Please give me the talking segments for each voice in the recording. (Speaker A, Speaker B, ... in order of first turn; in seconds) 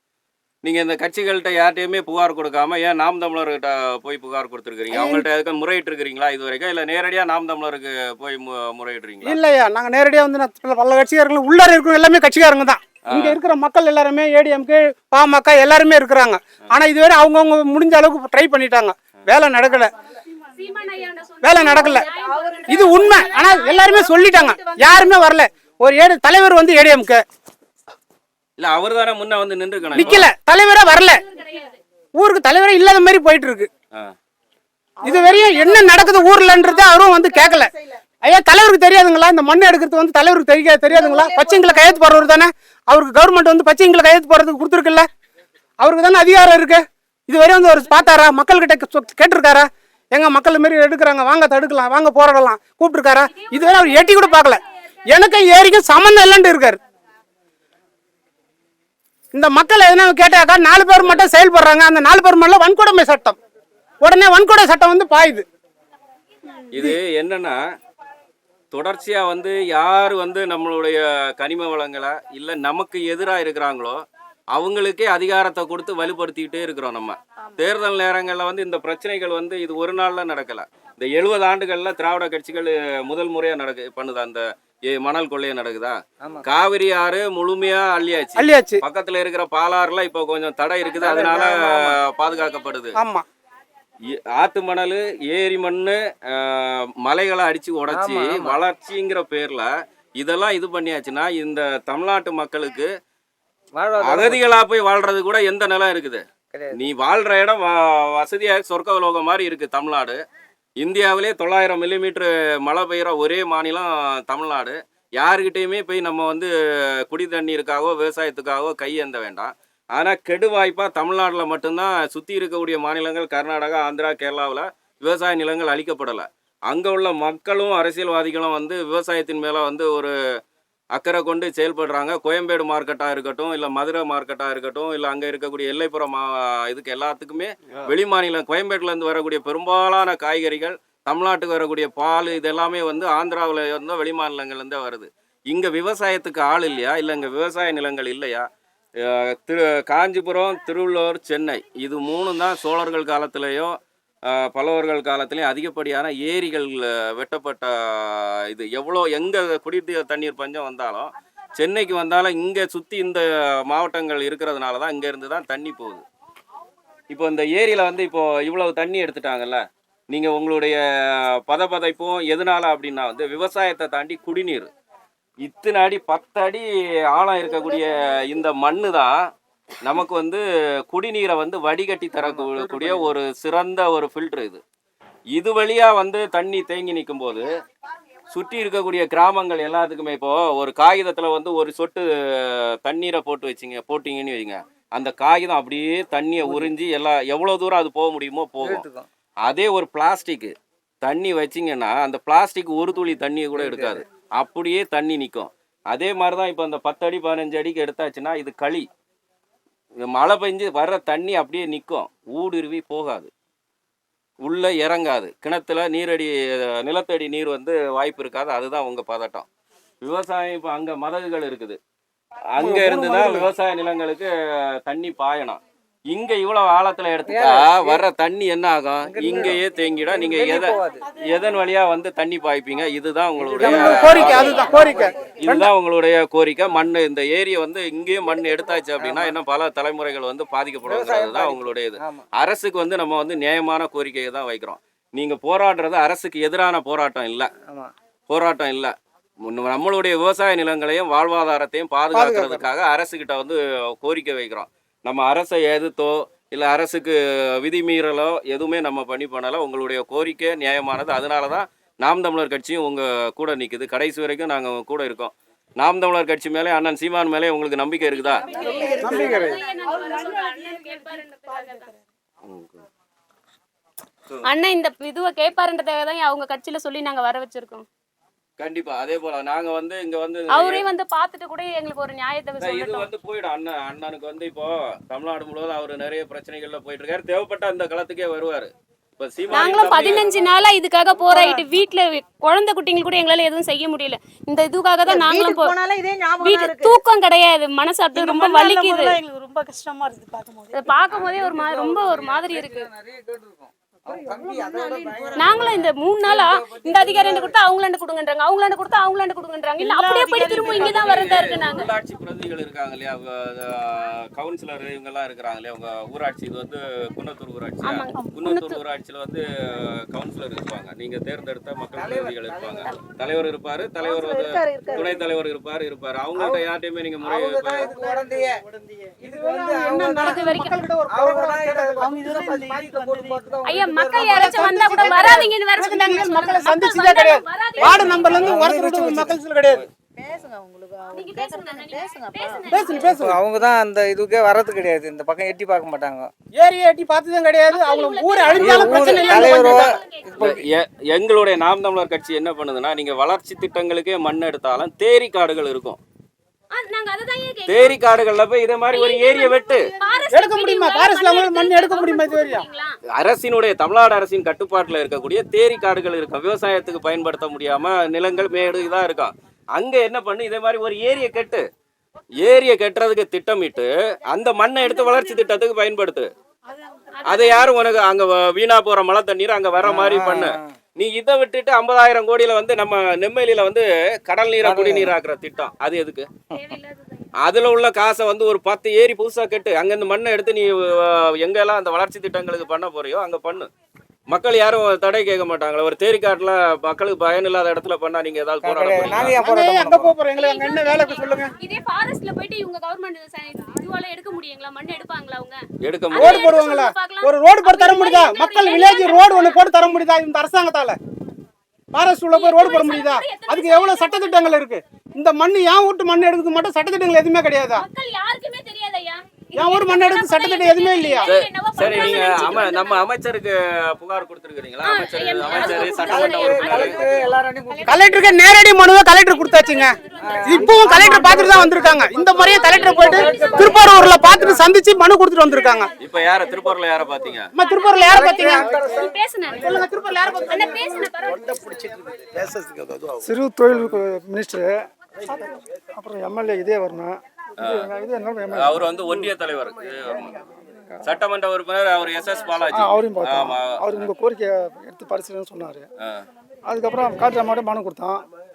Speaker A: 0.6-9.4, 13.1-13.4, 28.6-30.3, 61.0-61.2, 66.7-67.6, 68.7-74.0, 74.5-93.0, 94.3-102.9, 104.0-110.2, 110.8-116.5, 117.0-130.1, 130.9-148.5, 149.0-153.8, 154.3-166.0, 167.1-174.7, 175.4-179.2, 179.8-184.6, 185.3-187.5, 188.3-198.9, 199.4-208.9, 210.0-213.3, 214.4-219.5, 220.0-221.8, 222.5-224.3, 224.8-247.5, 248.3-268.8, 272.4-272.8, 278.6-280.9, 282.6-290.4, 310.8-328.0, 350.4-356.0, 357.7-359.9, 363.1-371.6, 372.4-376.3, 377.2-386.3, 387.4-393.7, 394.3-399.4, 405.8-406.5, 421.2-427.1, 436.0-437.5, 447.6-447.9, 448.5-450.3, 451.0-454.1
Speaker B: 4.9-5.3, 9.2-19.9, 21.4-22.1, 22.7-27.2, 29.9-31.2, 32.1-33.7, 35.0-45.1, 45.8-56.8, 59.3-63.4, 64.0-65.5, 88.4-88.8, 93.0-93.2, 233.6-235.7, 268.9-269.6, 329.2-332.2, 334.3-339.9, 342.7-343.4, 346.6-350.0, 360.3-362.6, 399.2-401.5, 406.1-411.0, 411.9-417.9, 419.6-421.3, 427.9-435.9, 437.6-438.7, 439.6-441.0
Speaker C: 20.6-23.7, 30.9-31.8, 53.2-55.4, 268.1-271.9, 274.4-277.9, 280.5-283.1, 289.5-295.8, 296.4-299.2, 300.7-302.9, 305.4-311.9, 317.8-318.8, 329.9-330.7, 333.6-338.5, 341.1-343.1, 347.7-350.4, 356.7-358.0, 358.9-363.0, 374.8-375.4, 377.1-377.8, 386.5-387.3, 400.4-405.6, 406.1-409.6, 412.3-414.5, 417.7-423.1, 424.8-428.6, 429.3-434.6, 435.5-435.9, 437.6-441.9
Speaker D: 91.0-91.9, 97.9-98.6, 103.8-104.4, 106.5-106.8, 196.4-196.7, 198.6-199.1, 203.6-204.0, 227.3-228.0, 229.0-229.6, 230.1-231.1, 233.4-235.1, 239.0-239.3, 240.8-242.2, 247.7-247.9, 252.1-252.7, 301.1-307.6, 321.9-322.9, 324.9-325.1, 326.4-326.7, 327.2-330.4, 331.1-335.4, 337.8-339.4, 343.1-346.3, 348.6-350.7, 379.8-380.8, 384.6-385.1, 398.6-400.1, 425.7-427.9, 430.2-431.9, 432.8-434.7, 438.1-439.1
Speaker E: 182.3-183.0, 222.6-223.4, 443.2-449.0, 450.1-451.1, 452.7-455.9, 456.7-458.2
Speaker F: 298.2-300.6, 304.2-305.4, 309.9-310.9, 332.2-333.4